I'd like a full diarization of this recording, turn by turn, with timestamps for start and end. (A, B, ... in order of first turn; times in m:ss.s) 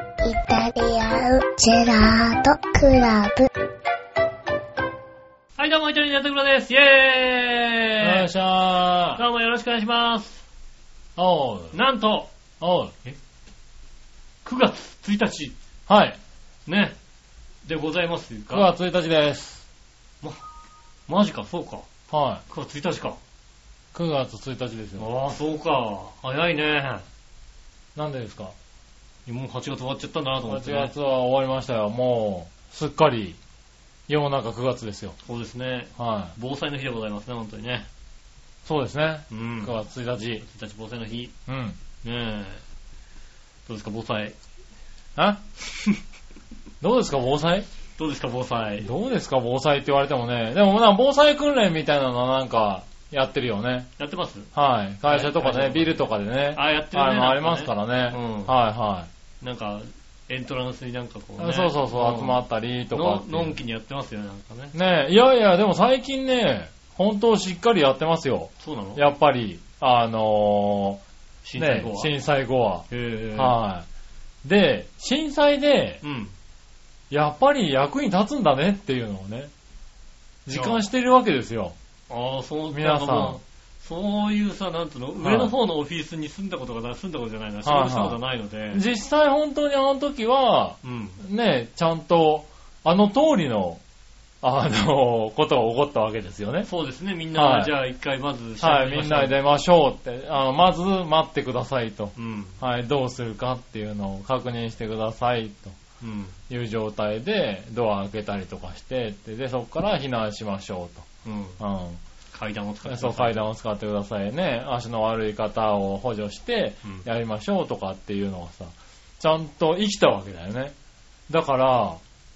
0:00.2-0:03.5 A
0:05.6-0:08.3 B
0:08.0-0:09.2 C
0:09.2-0:10.4 B
0:11.2-0:11.8 C
0:11.7-0:12.3 B
0:12.6-0:12.9 C
0:14.4-0:15.5 B
0:15.9-0:16.2 C
0:16.7-0:16.9 B
0:17.6-0:18.7 B
0:18.5-0:19.6 C
0:21.1-0:21.9 B
0:22.1-0:22.4 C
0:22.5-0:23.2 B
0:23.9-0:25.0 C
0:25.0-0:27.1 B
0:28.0-0:28.5 C
0:29.2-0:30.9 B
0:30.5-0:33.4 C
0:34.1-0:35.2 C
0:35.2-0:37.9 B
0:36.0-0:36.3 C
0:38.6-0:40.4 C
0:39.3-0:39.7 B
0:40.4-0:41.3 B
0:41.5-0:41.8 C
0:42.0-0:42.6 B
0:43.6-0:44.4 B
0:45.2-0:45.4 C
0:46.8-0:47.7 C
0:48.0-0:48.9 B
0:48.8-0:53.9 C
0:54.0-0:54.5 B
0:54.5-0:59.1 C
0:55.0-0:58.5 B
0:59.4-1:02.4 B
1:01.4-1:03.6 C
1:02.9-1:04.7 B
1:04.7-1:11.0 C
1:08.6-1:09.0 B
1:11.4-1:12.1 B
1:11.6-1:13.9 C
1:12.9-1:13.6 B
1:14.4-1:16.0 C
1:16.0-1:16.3 B
1:17.1-1:19.5 C
1:20.4-1:21.7 C
1:20.5-1:20.8 B
1:22.1-1:28.8 B
1:22.7-1:23.4 C
1:25.2-1:25.5 C
1:27.6-1:28.2 C
1:28.7-1:33.8 C
1:30.8-1:31.2 B
1:34.4-1:36.7 C
1:36.6-1:39.4 B
1:37.3-1:37.7 C
1:38.6-1:45.8 C
1:42.2-1:42.6 B
1:46.0-1:46.4 B
1:46.5-1:51.1 C
1:51.2-1:51.6 B
1:51.6-1:52.0 C
1:52.3-1:53.4 B
1:52.8-2:00.7 C
2:01.3-2:02.0 C